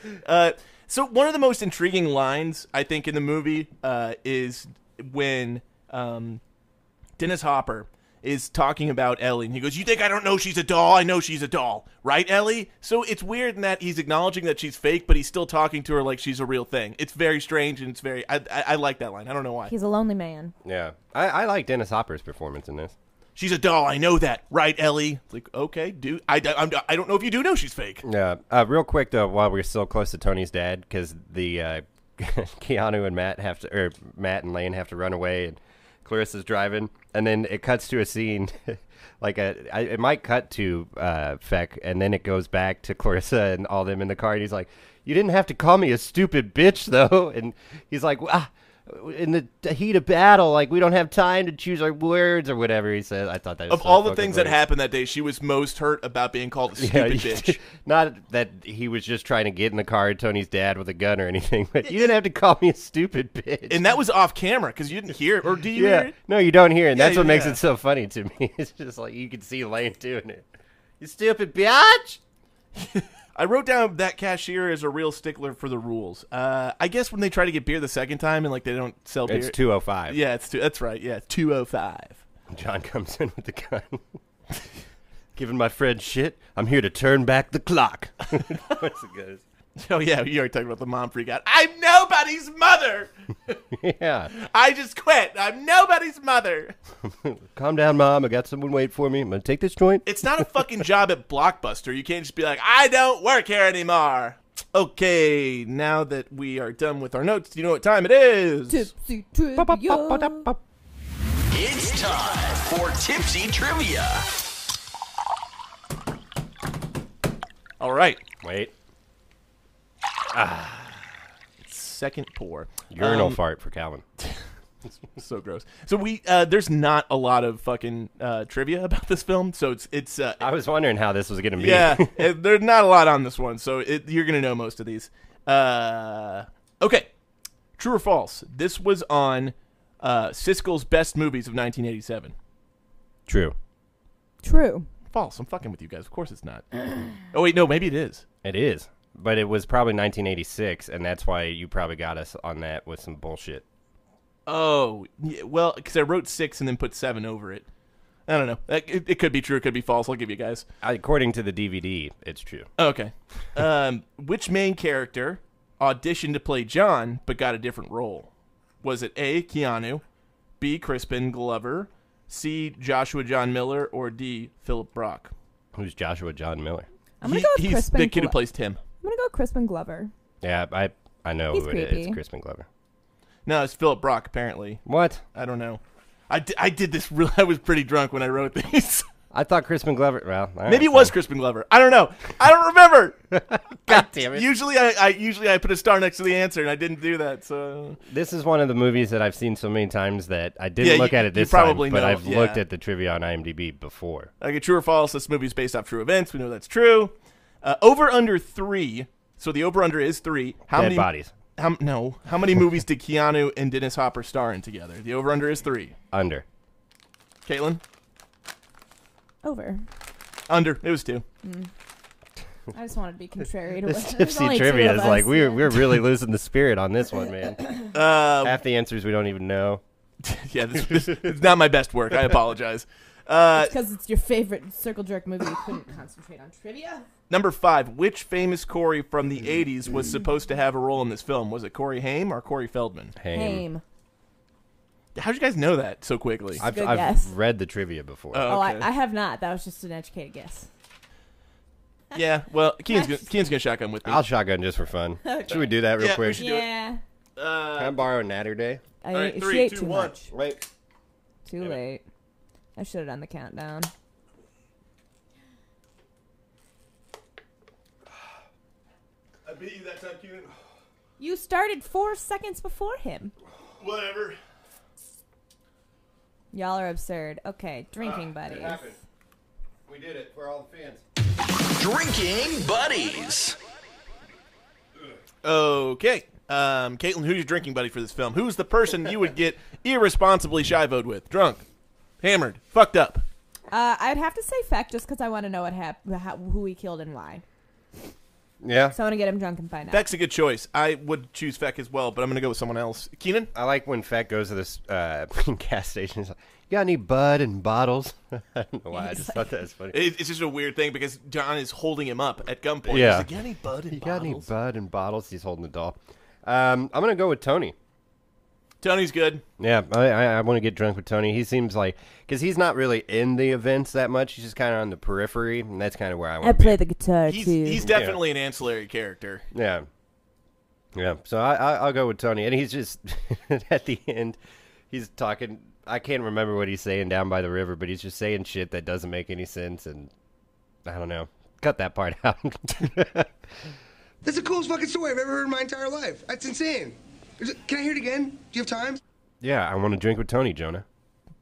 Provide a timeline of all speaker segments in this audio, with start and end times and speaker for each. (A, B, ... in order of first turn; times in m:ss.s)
0:00.2-0:06.4 A
0:07.2-0:19.7 A
0:19.7-0:20.5 B
0:20.6-0:22.9 C
0:23.4-0:28.0 A
0:28.0-0:54.6 C
0:53.7-0:57.6 A
0:56.8-1:03.8 C
1:03.7-1:06.1 A
1:05.7-1:10.4 C
1:06.9-1:07.6 A
1:11.0-1:12.2 C
1:12.9-1:22.2 A
1:19.2-1:20.2 C
1:22.5-1:24.0 C
1:25.4-1:29.4 C
1:29.8-1:33.6 A
1:33.7-1:34.3 C
1:34.3-1:36.7 A
1:37.1-1:40.4 C
1:40.0-1:48.9 A
1:48.7-1:50.5 B
1:49.6-1:50.6 C
1:51.5-1:54.3 D
1:57.8-1:58.2 A
1:58.4-1:58.7 C
2:00.3-2:01.1 C
2:01.6-2:03.4 A
2:02.9-2:04.0 C
2:05.2-2:10.4 A
2:10.4-2:12.3 C
2:11.6-2:17.1 A
2:17.8-2:22.3 A
2:23.3-2:23.6 C
2:24.4-2:24.9 B
2:25.1-2:28.2 A
2:28.4-2:33.6 C
2:34.5-2:37.6 A
2:38.3-2:40.6 A
2:40.8-2:42.7 C
2:42.8-2:48.3 A
2:48.8-2:50.0 A
2:50.6-2:55.3 A
2:55.7-2:56.9 C
2:57.2-2:58.4 B
2:57.2-2:58.8 A
2:59.0-3:00.1 B
3:00.4-3:02.7 C
3:01.5-3:02.2 B
3:03.4-3:04.8 A
3:04.8-3:05.2 C
3:05.3-3:09.0 A
3:09.3-3:11.1 C
3:10.6-3:13.2 A
3:13.4-3:14.5 C
3:13.9-3:18.0 A
3:18.0-3:24.3 C
3:20.8-3:22.6 A
3:24.4-3:35.9 A
3:30.7-3:31.3 C
3:36.1-3:36.4 C
3:37.4-3:37.8 A
3:39.4-3:39.8 B
3:40.5-3:41.2 A
3:41.4-3:41.7 B
3:42.7-3:45.9 B
3:43.8-3:47.7 C
3:47.9-3:48.6 A
3:48.4-3:49.8 C
3:50.2-3:53.7 A
3:53.5-3:57.1 B
3:57.3-4:03.1 A
4:03.2-4:03.6 C
4:03.3-4:03.8 B
4:05.1-4:06.6 A
4:06.6-4:08.6 C
4:06.6-4:07.3 B
4:08.3-4:08.9 A
4:08.5-4:10.7 B
4:12.1-4:14.2 A
4:12.9-4:13.3 B
4:14.0-4:16.4 C
4:15.2-4:15.8 B
4:16.0-4:16.7 A
4:16.4-4:17.0 B
4:17.4-4:18.0 A
4:17.8-4:18.8 C
4:19.0-4:20.3 B
4:19.1-4:20.2 A
4:20.3-4:20.6 C
4:21.4-4:22.0 B
4:22.8-4:23.9 B
4:29.4-4:30.5 A
4:31.2-4:33.3 B
4:33.8-4:34.4 A
4:36.5-4:38.8 B
4:38.4-4:39.0 C
4:39.9-4:41.0 C
4:41.7-4:43.6 D
4:45.4-4:51.6 A
4:52.2-4:53.2 A
4:53.7-4:57.4 B
4:58.6-4:59.0 C
4:58.9-5:00.1 B
4:59.9-5:03.5 A
5:03.5-5:10.0 C
5:08.9-5:09.4 B
5:09.9-5:14.5 A
5:12.9-5:13.3 C
5:13.9-5:17.8 C
5:18.8-5:19.4 A
5:19.6-5:26.8 C
5:26.4-5:27.8 B
5:27.3-5:29.4 A
5:27.8-5:28.2 C
5:29.5-5:29.9 C
5:30.9-5:34.4 C
5:34.9-5:40.1 C
5:40.8-5:43.3 C
5:44.2-5:49.0 E
5:49.4-5:50.8 C